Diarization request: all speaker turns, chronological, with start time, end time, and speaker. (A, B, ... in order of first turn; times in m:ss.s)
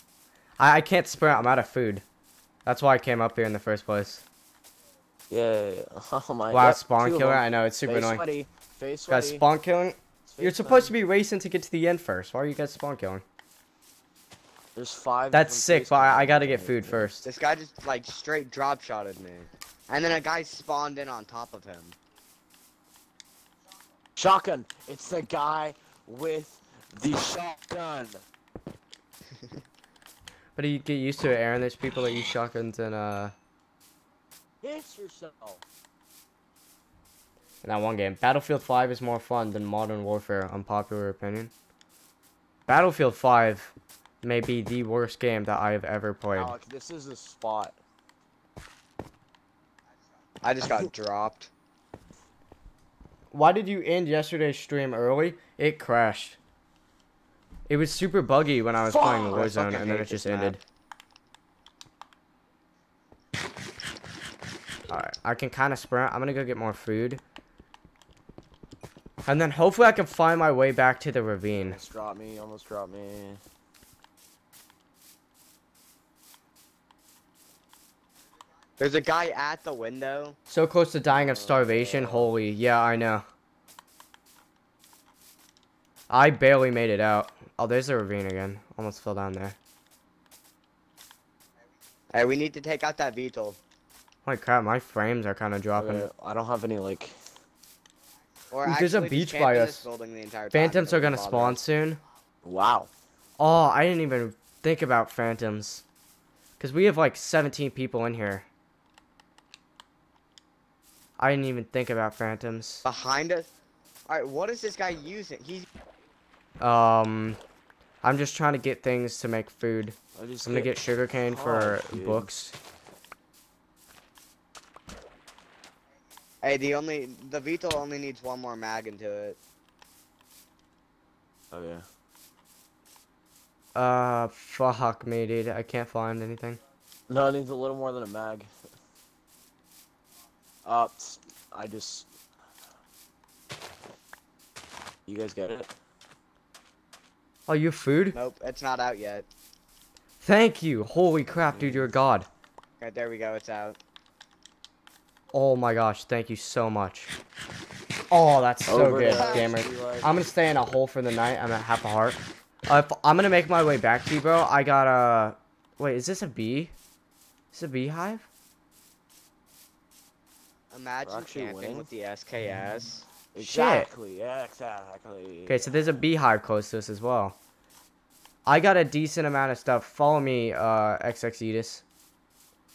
0:00.6-0:02.0 A
0:02.7-0:04.2 A
0:05.3-0:09.4 B
0:06.5-0:08.2 A
0:09.1-0:13.2 A
0:10.3-0:10.9 B
0:14.8-0:17.1 B
0:15.3-0:17.3 A
0:17.2-0:22.0 C
0:24.2-0:28.2 B
0:30.6-0:33.4 A
0:34.6-0:35.6 B
0:37.6-0:41.5 A
0:42.7-0:46.6 A
0:46.3-0:47.8 B
0:50.4-0:51.5 C
0:53.3-0:56.4 A
0:57.7-1:00.6 A
0:58.9-0:59.7 B
0:59.3-1:00.6 C
1:04.9-1:07.2 A
1:09.3-1:11.8 A
1:11.6-1:13.4 B
1:18.8-1:20.4 C
1:20.5-1:23.3 A
1:21.1-1:22.3 B
1:26.1-1:29.6 A
1:32.1-1:33.6 C
1:34.3-1:36.1 A
1:35.8-1:37.2 B
1:38.5-1:41.6 C
1:38.7-1:39.9 A
1:40.5-1:42.0 A
1:42.4-1:42.9 B
1:43.4-1:45.8 A
1:46.6-1:48.5 A
1:51.2-1:52.8 A
1:52.8-1:53.5 C
1:54.1-1:55.7 C
1:56.6-1:57.4 A
1:58.0-2:02.6 A
2:00.2-2:02.3 B
2:06.4-2:09.4 C
2:11.5-2:11.8 B
2:13.8-2:16.6 A
2:17.1-2:18.5 B
2:20.6-2:22.1 B
2:25.1-2:25.7 B
2:27.5-2:28.2 A
2:28.1-2:29.3 C
2:30.2-2:32.3 A
2:31.5-2:31.9 B
2:32.8-2:33.8 C
2:35.3-2:37.1 A
2:38.1-2:46.7 A
2:38.7-2:40.2 B
2:39.1-2:39.5 C
2:47.5-2:48.3 A
2:50.7-2:53.1 C
2:51.1-2:51.9 B
2:53.3-2:55.6 B
2:53.4-2:53.9 A
2:55.5-2:57.4 A
2:58.5-3:01.8 A